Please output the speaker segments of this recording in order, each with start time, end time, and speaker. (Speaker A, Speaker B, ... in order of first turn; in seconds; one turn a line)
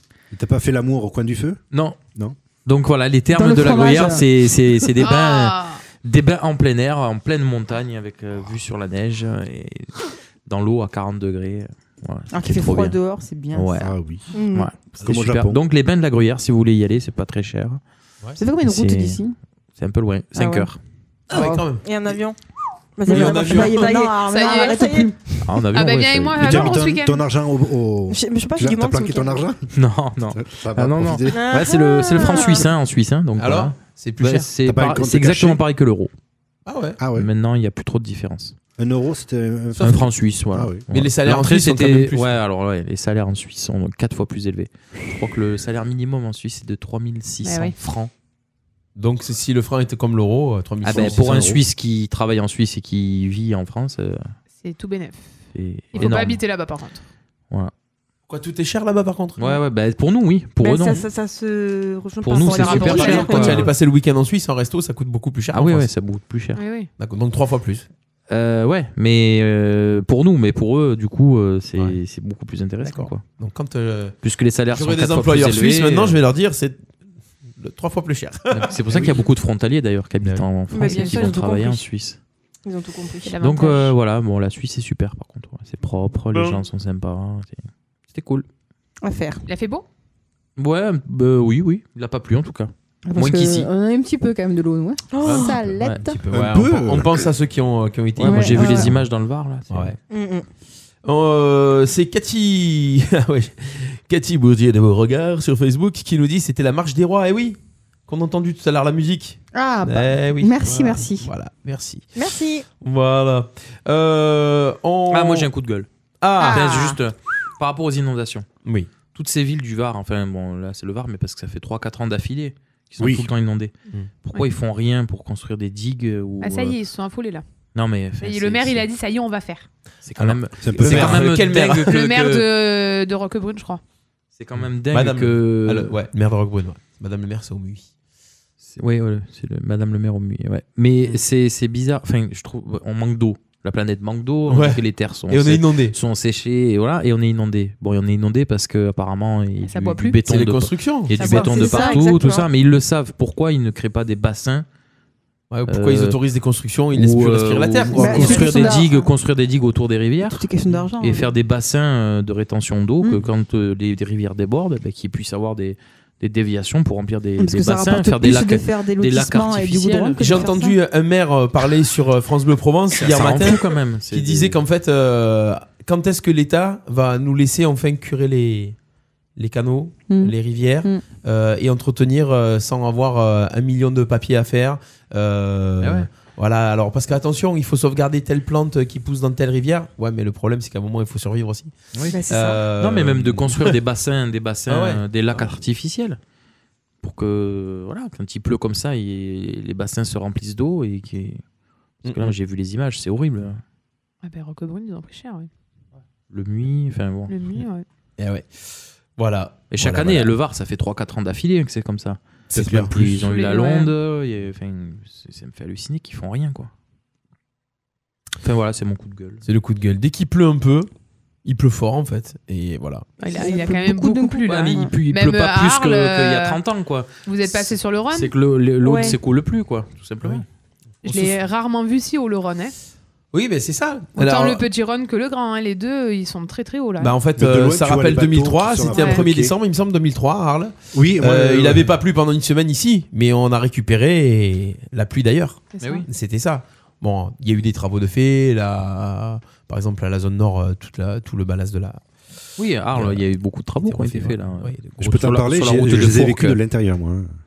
Speaker A: 0.3-1.6
Speaker B: 1.7-2.0
Speaker B: 2.6-13.0
Speaker C: 3.3-4.2
Speaker D: 5.0-5.8
Speaker C: 12.3-13.8
Speaker B: 13.5-13.9
Speaker A: 13.8-14.3
Speaker E: 14.3-14.7
Speaker B: 14.5-17.8
Speaker A: 14.9-15.6
Speaker C: 18.4-19.3
Speaker B: 18.6-19.2
Speaker B: 19.8-20.8
Speaker C: 20.3-20.7
Speaker F: 21.3-22.2
Speaker C: 21.3-21.6
Speaker E: 21.8-22.4
Speaker E: 22.9-25.1
Speaker F: 23.0-24.0
Speaker C: 23.1-25.1
Speaker D: 24.2-25.1
Speaker B: 25.4-26.8
Speaker D: 25.7-27.2
Speaker A: 26.4-29.6
Speaker E: 28.1-29.4
Speaker B: 29.7-36.1
Speaker A: 30.3-31.4
Speaker E: 31.3-32.7
Speaker F: 33.4-34.5
Speaker A: 34.6-35.6
Speaker F: 36.6-37.0
Speaker A: 37.0-37.3
Speaker B: 37.1-38.5
Speaker A: 38.8-40.8
Speaker B: 39.8-48.1
Speaker F: 40.9-42.4
Speaker D: 47.4-47.8
Speaker F: 49.0-51.6
Speaker B: 50.8-54.3
Speaker A: 50.9-51.6
Speaker D: 54.6-55.4
Speaker B: 55.5-56.4
Speaker D: 55.9-57.0
Speaker F: 58.3-59.6
Speaker B: 59.4-61.0
Speaker E: 60.6-63.6
Speaker B: 62.2-63.7
Speaker D: 62.5-63.7
Speaker F: 62.5-65.9
Speaker B: 65.5-66.6
Speaker D: 66.5-66.9
Speaker F: 67.0-67.9
Speaker B: 68.3-73.2
Speaker F: 72.8-74.2
Speaker B: 74.2-76.2
Speaker F: 74.7-76.8
Speaker F: 77.6-79.2
Speaker B: 78.5-82.2
Speaker E: 80.7-81.8
Speaker D: 80.8-81.3
Speaker E: 82.6-83.4
Speaker D: 83.2-84.0
Speaker B: 83.4-88.5
Speaker F: 86.3-86.6
Speaker C: 89.0-89.4
Speaker D: 89.5-89.8
Speaker B: 90.6-93.7
Speaker C: 93.1-96.2
Speaker E: 95.1-95.5
Speaker F: 95.2-99.1
Speaker B: 95.8-96.0
Speaker A: 96.3-97.3
Speaker B: 98.2-99.9
Speaker C: 98.2-98.9
Speaker F: 99.7-100.0
Speaker E: 100.1-100.5
Speaker F: 101.0-112.2
Speaker C: 109.5-111.3
Speaker E: 112.2-112.6
Speaker F: 112.8-115.5
Speaker B: 115.1-115.9
Speaker F: 116.2-117.0
Speaker B: 116.4-118.5
Speaker F: 118.6-118.9
Speaker B: 119.1-123.7
Speaker A: 123.0-123.3
Speaker B: 124.2-126.8
Speaker D: 126.4-127.4
Speaker B: 127.7-128.8
Speaker D: 128.2-129.7
Speaker B: 130.0-132.4
Speaker F: 130.2-132.0
Speaker A: 130.6-131.3
Speaker D: 131.8-133.8
Speaker B: 134.3-135.9
Speaker F: 134.9-137.9
Speaker B: 138.7-154.7
Speaker F: 144.5-145.9
Speaker D: 149.6-150.2
Speaker F: 150.2-151.4
Speaker D: 151.1-151.8
Speaker E: 151.4-152.5
Speaker C: 151.5-152.0
Speaker F: 155.5-158.7
Speaker B: 155.7-156.2
Speaker B: 156.9-160.4
Speaker C: 157.9-159.0
Speaker D: 158.4-158.9
Speaker C: 160.2-161.3
Speaker B: 161.0-170.5
Speaker C: 167.4-170.8
Speaker F: 170.2-178.8
Speaker B: 172.9-174.6
Speaker F: 179.3-191.7
Speaker C: 180.1-181.0
Speaker B: 185.8-186.1
Speaker E: 192.1-192.6
Speaker F: 192.3-193.8
Speaker B: 192.8-196.2
Speaker F: 194.7-195.5
Speaker B: 197.0-201.4
Speaker B: 202.0-203.6
Speaker F: 202.0-202.3
Speaker D: 204.2-205.5
Speaker B: 206.3-207.4
Speaker D: 207.3-207.8
Speaker F: 208.2-210.3
Speaker B: 209.7-216.7
Speaker A: 212.5-213.3
Speaker D: 213.3-213.9
Speaker B: 218.4-219.4
Speaker F: 219.4-220.9
Speaker F: 221.4-223.1
Speaker D: 223.2-226.6
Speaker C: 223.3-224.9
Speaker B: 224.4-230.4
Speaker D: 227.2-228.3
Speaker E: 228.8-229.2
Speaker D: 231.0-232.7
Speaker F: 231.1-231.4
Speaker F: 233.3-234.6
Speaker D: 234.2-237.2
Speaker F: 237.0-252.0
Speaker A: 237.3-239.5
Speaker D: 238.9-239.2
Speaker A: 240.9-241.9
Speaker D: 245.7-246.1
Speaker B: 245.8-246.0
Speaker B: 252.6-256.6
Speaker F: 253.8-255.2
Speaker A: 255.0-257.3